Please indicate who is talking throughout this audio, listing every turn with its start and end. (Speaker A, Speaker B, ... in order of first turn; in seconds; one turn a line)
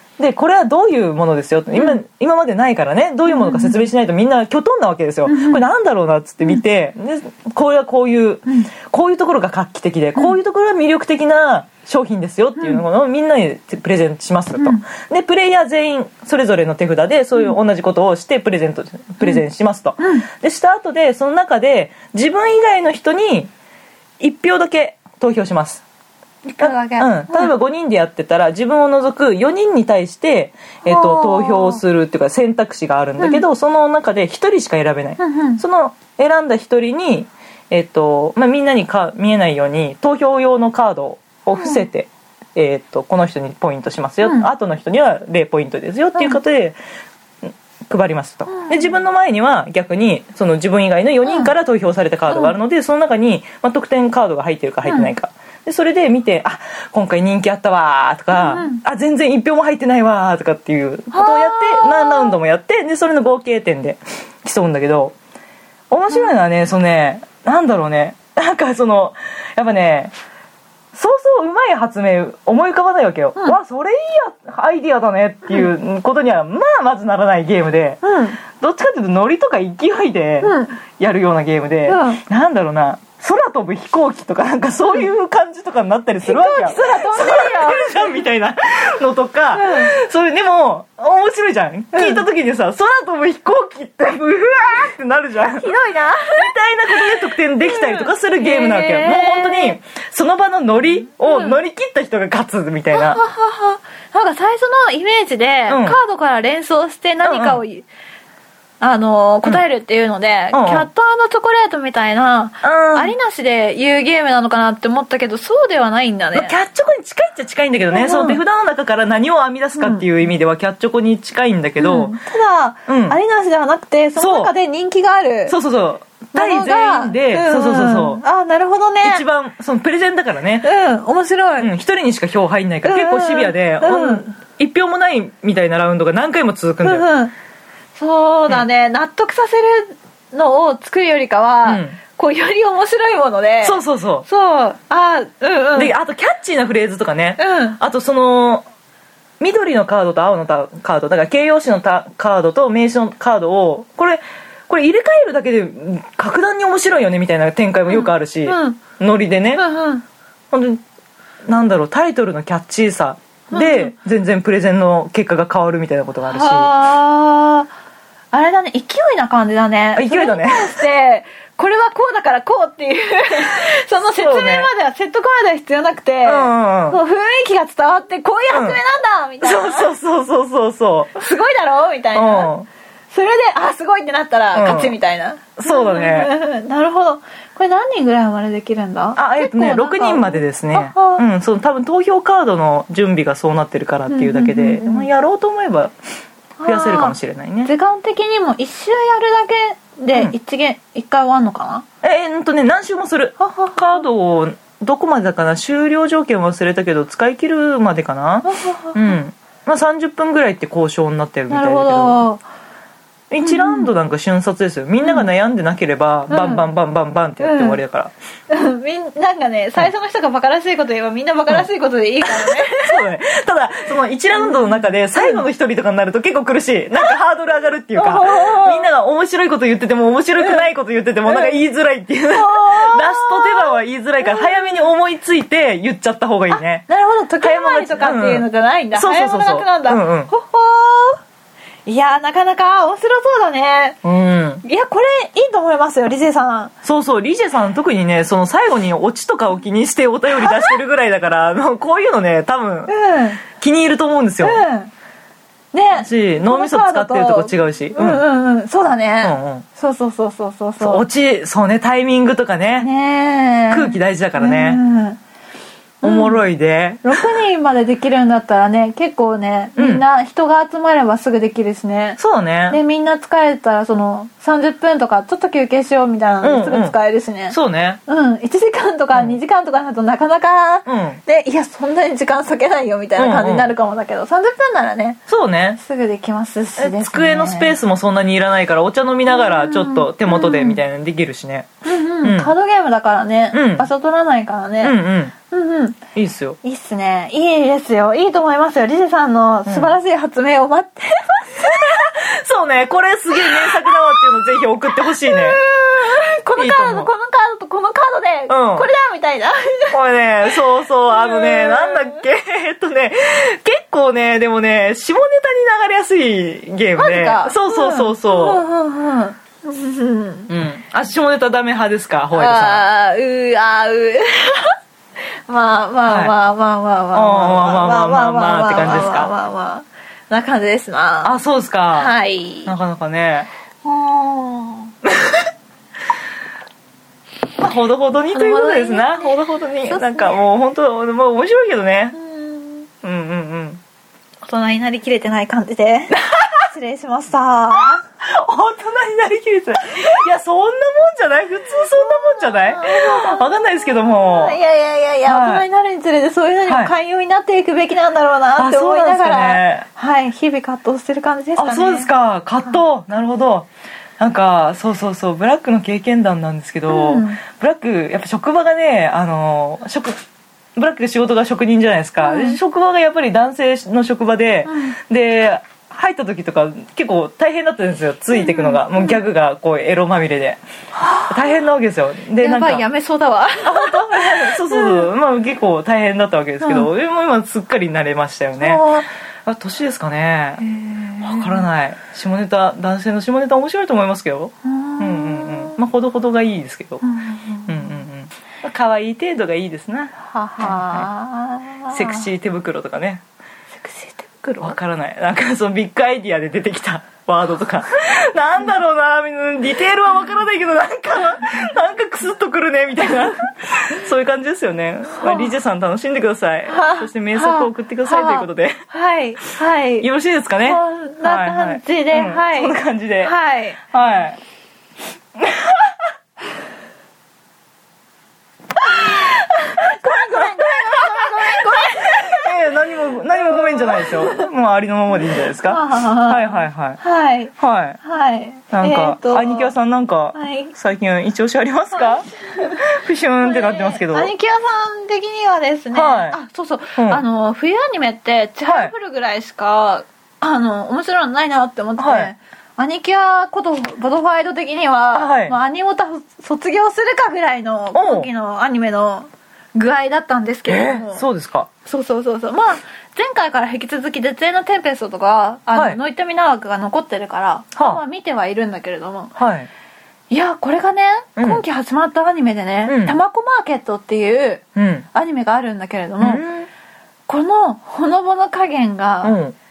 Speaker A: 0.2-23.5
Speaker B: 3.3-3.8
Speaker B: 5.3-5.6
Speaker B: 8.5-8.7
Speaker B: 14.6-14.8
Speaker B: 20.0-20.3
Speaker A: 24.2-25.8
Speaker B: 26.5-27.5
Speaker A: 26.6-46.8
Speaker B: 30.9-31.8
Speaker B: 33.2-33.4
Speaker B: 35.2-35.6
Speaker B: 41.6-41.8
Speaker B: 44.2-44.5
Speaker A: 47.5-65.2
Speaker B: 48.5-48.9
Speaker B: 51.2-51.5
Speaker B: 52.3-52.5
Speaker B: 54.9-55.1
Speaker B: 58.3-58.8
Speaker B: 61.1-62.4
Speaker A: 65.9-70.1
Speaker A: 70.9-95.7
Speaker B: 78.0-78.4
Speaker B: 80.4-80.8
Speaker B: 81.9-82.2
Speaker B: 86.2-88.2
Speaker B: 89.5-89.9
Speaker B: 91.9-92.2
Speaker B: 95.6-96.5
Speaker A: 96.2-103.2
Speaker B: 97.6-99.8
Speaker B: 101.3-101.6
Speaker B: 102.9-107.9
Speaker A: 105.7-106.0
Speaker A: 107.2-107.6
Speaker B: 108.8-116.5
Speaker A: 110.5-110.9
Speaker A: 112.6-113.1
Speaker A: 116.3-122.2
Speaker B: 117.9-118.4
Speaker B: 119.8-120.1
Speaker B: 121.8-125.6
Speaker A: 122.9-123.2
Speaker A: 124.2-124.5
Speaker A: 125.5-128.2
Speaker B: 126.3-129.2
Speaker A: 129.0-130.7
Speaker B: 130.6-131.7
Speaker A: 131.6-137.1
Speaker B: 132.8-134.3
Speaker B: 136.8-137.3
Speaker B: 138.0-145.9
Speaker A: 141.7-142.0
Speaker A: 143.6-144.3
Speaker A: 145.8-148.7
Speaker B: 147.4-147.8
Speaker A: 149.4-159.6
Speaker B: 157.9-158.8
Speaker B: 159.6-160.1
Speaker A: 160.5-160.8
Speaker A: 161.4-166.7
Speaker B: 163.5-163.9
Speaker B: 166.3-167.7
Speaker B: 168.3-179.9
Speaker A: 170.0-170.8
Speaker A: 174.1-174.7
Speaker A: 176.2-177.0
Speaker A: 178.5-178.8
Speaker A: 179.4-181.2
Speaker B: 181.2-182.5
Speaker A: 182.2-182.7
Speaker B: 183.1-191.2
Speaker A: 184.5-184.9
Speaker A: 185.6-186.3
Speaker A: 189.2-195.9
Speaker B: 194.1-195.1
Speaker B: 196.6-201.9
Speaker A: 196.7-197.7
Speaker A: 202.0-212.2
Speaker B: 203.4-203.8
Speaker B: 208.4-209.1
Speaker B: 211.5-212.4
Speaker A: 213.3-218.1
Speaker B: 213.4-213.9
Speaker B: 215.0-215.3
Speaker B: 216.3-216.7
Speaker B: 217.4-217.8
Speaker B: 218.5-223.0
Speaker A: 222.2-236.9
Speaker B: 224.3-225.4
Speaker B: 227.9-228.9
Speaker B: 230.4-230.7
Speaker B: 231.3-231.6
Speaker B: 232.3-234.8
Speaker B: 236.5-241.2
Speaker A: 237.4-240.3
Speaker B: 241.9-244.0
Speaker A: 244.0-244.6
Speaker B: 244.6-246.7
Speaker A: 246.8-252.9
Speaker B: 250.4-250.8
Speaker B: 252.9-253.4
Speaker A: 253.4-254.6
Speaker B: 254.4-254.9
Speaker B: 255.7-261.0
Speaker A: 256.0-258.2
Speaker A: 259.2-259.6
Speaker A: 260.8-262.9
Speaker B: 262.8-265.2
Speaker A: 263.7-264.8
Speaker B: 266.0-266.4
Speaker A: 266.0-267.3
Speaker B: 267.0-272.2
Speaker A: 269.8-270.0
Speaker A: 272.2-272.8
Speaker B: 272.7-285.2
Speaker A: 276.4-277.0
Speaker A: 277.5-278.0
Speaker A: 280.9-281.2
Speaker A: 283.2-283.7
Speaker A: 285.3-285.8
Speaker B: 285.8-287.8
Speaker A: 286.8-291.7
Speaker B: 289.3-290.8
Speaker B: 291.9-295.0
Speaker A: 292.2-292.5
Speaker A: 293.5-293.9
Speaker A: 294.8-295.3
Speaker B: 295.5-296.0
Speaker A: 296.1-296.6
Speaker B: 296.6-302.1
Speaker A: 299.7-300.0
Speaker A: 301.7-305.6
Speaker B: 303.4-303.9
Speaker B: 305.0-310.6
Speaker A: 306.6-307.1
Speaker A: 308.5-308.9
Speaker A: 309.9-318.6
Speaker B: 311.1-312.2
Speaker B: 317.0-320.5
Speaker A: 320.5-322.8
Speaker B: 322.4-324.8
Speaker B: 325.5-331.3
Speaker A: 326.1-326.3
Speaker A: 327.1-329.3
Speaker A: 331.2-332.1
Speaker B: 331.9-332.7
Speaker A: 332.6-333.5
Speaker B: 333.8-334.9
Speaker A: 337.6-342.2
Speaker B: 338.3-340.4
Speaker B: 342.1-342.9
Speaker A: 343.0-343.8
Speaker B: 344.4-348.0
Speaker A: 346.3-346.6
Speaker A: 347.9-354.6
Speaker B: 352.1-353.5
Speaker B: 354.1-362.1
Speaker A: 355.3-355.6
Speaker A: 356.7-356.9
Speaker A: 358.6-359.9
Speaker A: 361.6-363.7
Speaker A: 364.2-370.2
Speaker B: 366.9-367.4
Speaker A: 370.8-380.6
Speaker B: 372.2-372.6
Speaker B: 374.7-375.0
Speaker B: 378.3-379.2
Speaker B: 380.9-381.7
Speaker A: 381.3-382.9
Speaker B: 382.4-385.1
Speaker A: 383.6-388.9
Speaker B: 386.6-386.9
Speaker B: 388.6-389.1
Speaker A: 389.4-390.6
Speaker B: 390.6-391.6
Speaker A: 391.2-397.0
Speaker B: 394.6-395.8
Speaker B: 397.0-398.0
Speaker A: 397.7-401.1
Speaker B: 400.2-402.3
Speaker A: 401.9-403.2
Speaker B: 403.8-404.8
Speaker A: 404.6-418.8
Speaker B: 415.2-415.5
Speaker B: 416.7-420.1
Speaker A: 420.0-423.3
Speaker B: 420.6-423.8
Speaker A: 423.9-424.4
Speaker A: 425.4-426.0
Speaker B: 428.9-432.5
Speaker A: 429.8-437.0
Speaker B: 433.3-434.5
Speaker B: 435.6-439.7
Speaker A: 437.6-438.0
Speaker A: 438.7-444.3
Speaker B: 440.3-440.7
Speaker B: 441.9-442.8
Speaker B: 443.4-461.2
Speaker A: 445.9-446.4
Speaker A: 447.0-447.2
Speaker A: 448.7-448.9
Speaker A: 452.0-452.3
Speaker A: 455.1-455.6
Speaker A: 457.9-458.3
Speaker A: 460.7-461.7
Speaker B: 461.9-469.3
Speaker A: 465.7-466.0
Speaker A: 467.8-468.0
Speaker A: 469.4-469.7
Speaker B: 470.3-476.4
Speaker A: 471.4-471.6
Speaker A: 472.9-473.2
Speaker A: 474.8-475.1
Speaker A: 476.2-476.7
Speaker B: 477.3-479.4
Speaker A: 479.2-479.6